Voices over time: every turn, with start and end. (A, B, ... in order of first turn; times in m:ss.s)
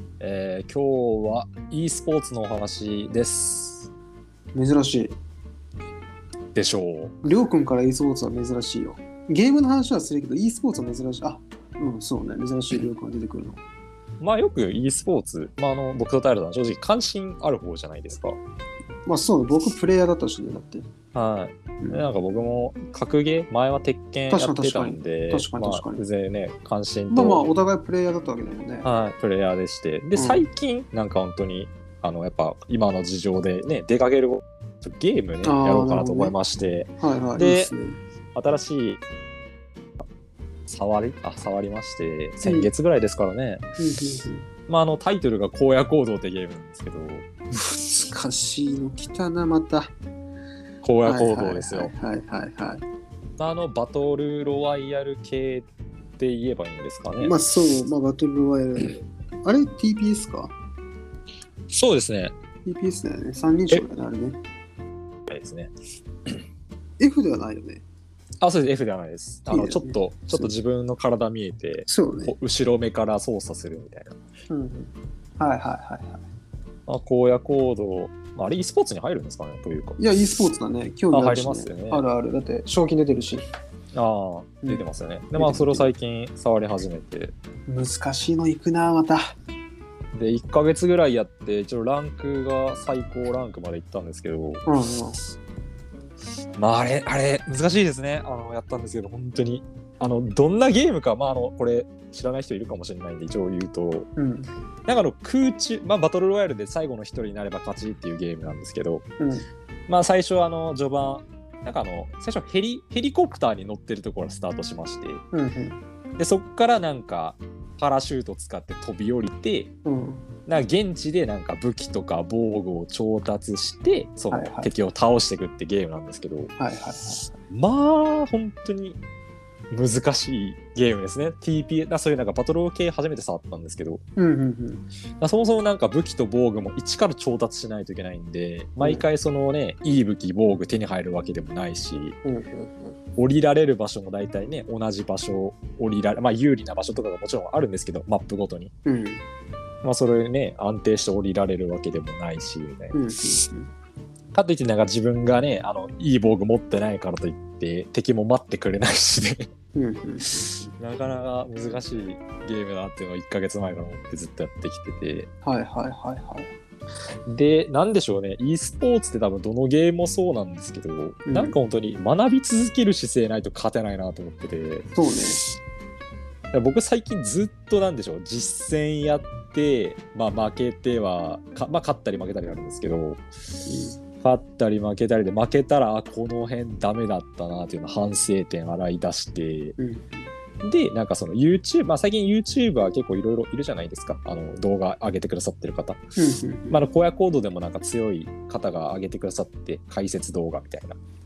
0:00.2-0:03.9 A
0:04.5-0:05.2 B
0:06.5-0:07.2 A
0:07.2-0:13.6 B
0:14.2-0:18.4 A
0:19.0-0:20.8 B
0:21.1-0:27.4 A
0:21.8-0:22.1 B
0:24.3-0:26.0 B
0:27.1-0:28.9 B
0:28.8-0:37.7 A
0:30.2-0:30.4 B
0:35.4-0:36.3 B
0:37.0-0:38.0 B
0:38.3-0:39.0 A
0:40.7-0:43.6 A
0:42.4-0:42.7 B
0:43.8-0:44.4 B
0:44.7-0:47.3 A
0:47.8-0:49.9 B
0:50.8-0:51.9 A
0:51.0-0:52.8 B
0:53.4-0:55.7 A
0:56.2-0:57.4 A
0:57.2-1:00.5 B
1:01.7-1:02.3 A
1:02.6-1:04.4 B
1:05.2-1:05.7 A
1:07.0-1:07.8 B
1:08.4-1:14.1 A
1:09.5-1:10.5 B
1:11.9-1:12.3 B
1:14.5-1:16.2 B
1:16.9-1:20.0 A
1:20.0-1:23.4 B
1:21.1-1:22.0 A
1:23.9-1:27.3 A
1:24.6-1:25.9 B
1:27.7-1:29.3 B
1:30.1-1:34.6 A
1:34.6-1:35.2 B
1:36.6-1:44.1 A
1:44.2-1:44.5 B
1:44.9-1:49.0 A
1:49.2-1:49.4 B
1:49.9-1:55.2 A
1:55.3-1:55.8 B
1:56.2-1:59.7 A
1:59.8-2:00.2 B
2:00.4-2:06.5 A
2:04.3-2:04.7 B
2:06.6-2:07.3 B
2:07.5-2:09.0 A
2:09.7-2:14.0 A
2:14.2-2:14.8 B
2:15.2-2:22.2 A
2:18.8-2:19.0 B
2:22.2-2:23.0 B
2:23.2-2:28.7 A
2:28.8-2:29.2 B
2:29.8-2:33.0 A
2:32.9-2:33.7 B
2:34.3-2:39.5 A
2:39.7-2:40.7 B
2:40.8-2:45.3 A
2:45.4-2:46.5 B
2:47.3-2:54.9 A
2:51.3-2:51.6 B
2:54.9-2:55.4 B
2:56.5-3:03.2 A
3:03.6-3:04.0 B
3:04.2-3:09.8 A
3:09.8-3:10.3 B
3:10.6-3:16.0 A
3:16.2-3:16.8 B
3:16.7-3:21.0 A